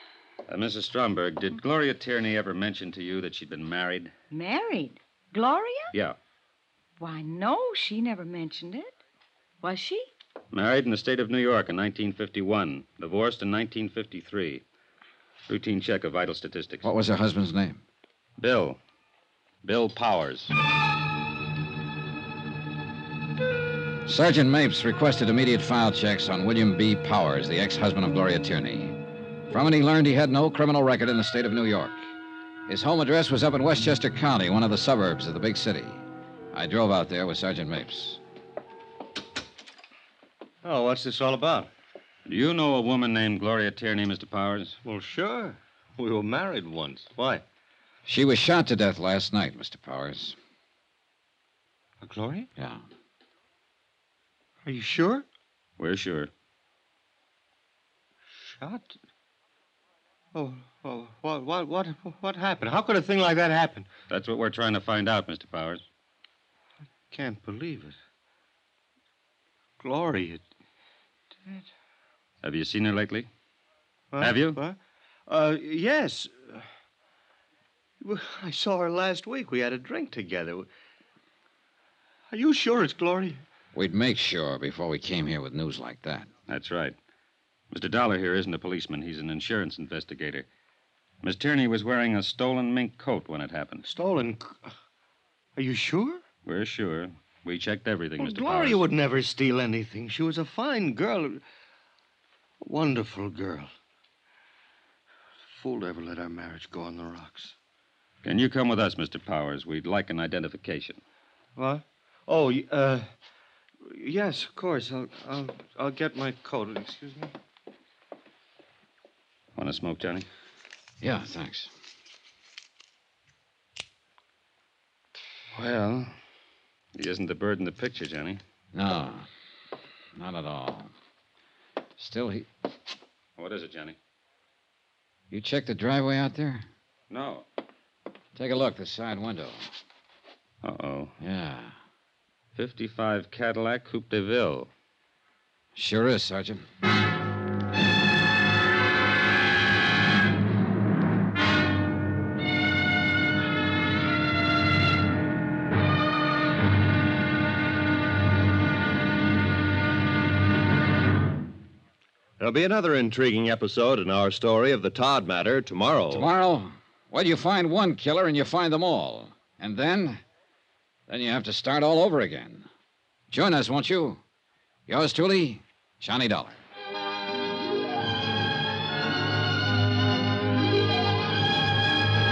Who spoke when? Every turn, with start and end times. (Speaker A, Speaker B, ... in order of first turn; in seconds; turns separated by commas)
Speaker A: 0.5-4.1, Speaker B: 4.3-5.9, Speaker B: 7.0-8.9, Speaker B: 9.6-10.1, Speaker A: 10.5-14.6, Speaker A: 15.5-16.9, Speaker C: 16.8-17.8, Speaker A: 18.4-18.8, Speaker A: 19.6-20.5, Speaker C: 24.1-28.9, Speaker C: 29.5-32.1, Speaker C: 32.7-38.2, Speaker D: 40.6-41.7, Speaker A: 42.2-44.8, Speaker D: 44.8-47.4, Speaker C: 48.0-50.4, Speaker D: 52.0-52.5, Speaker C: 52.6-52.8, Speaker D: 54.6-55.2, Speaker A: 55.8-56.3, Speaker D: 58.6-58.9, Speaker D: 60.3-63.9, Speaker A: 64.1-65.8, Speaker D: 67.1-68.0, Speaker D: 69.8-70.4, Speaker A: 72.4-73.3, Speaker D: 74.1-74.8, Speaker A: 74.2-74.6, Speaker D: 75.3-76.6, Speaker D: 78.0-80.7, Speaker D: 82.3-83.4, Speaker C: 83.7-86.3, Speaker A: 86.5-87.0, Speaker A: 87.7-90.5, Speaker A: 91.2-93.8, Speaker D: 93.9-94.6, Speaker D: 95.6-96.2, Speaker A: 96.4-98.8, Speaker D: 98.2-101.4, Speaker D: 102.6-103.7, Speaker D: 105.5-107.5, Speaker A: 108.2-111.0, Speaker D: 111.5-113.1, Speaker D: 113.8-117.3, Speaker A: 119.5-120.3, Speaker C: 121.0-121.7, Speaker A: 125.5-126.1, Speaker A: 127.0-128.4, Speaker C: 128.7-129.3, Speaker C: 130.2-130.9, Speaker C: 132.0-132.5, Speaker A: 133.4-134.0, Speaker C: 135.3-136.7, Speaker A: 137.1-137.4, Speaker C: 138.3-139.7, Speaker A: 140.6-141.1, Speaker C: 141.2-141.8, Speaker A: 142.5-144.7, Speaker C: 145.7-146.6, Speaker E: 162.4-166.3, Speaker C: 166.1-170.2, Speaker C: 171.1-172.7, Speaker C: 173.3-174.2, Speaker C: 174.9-176.6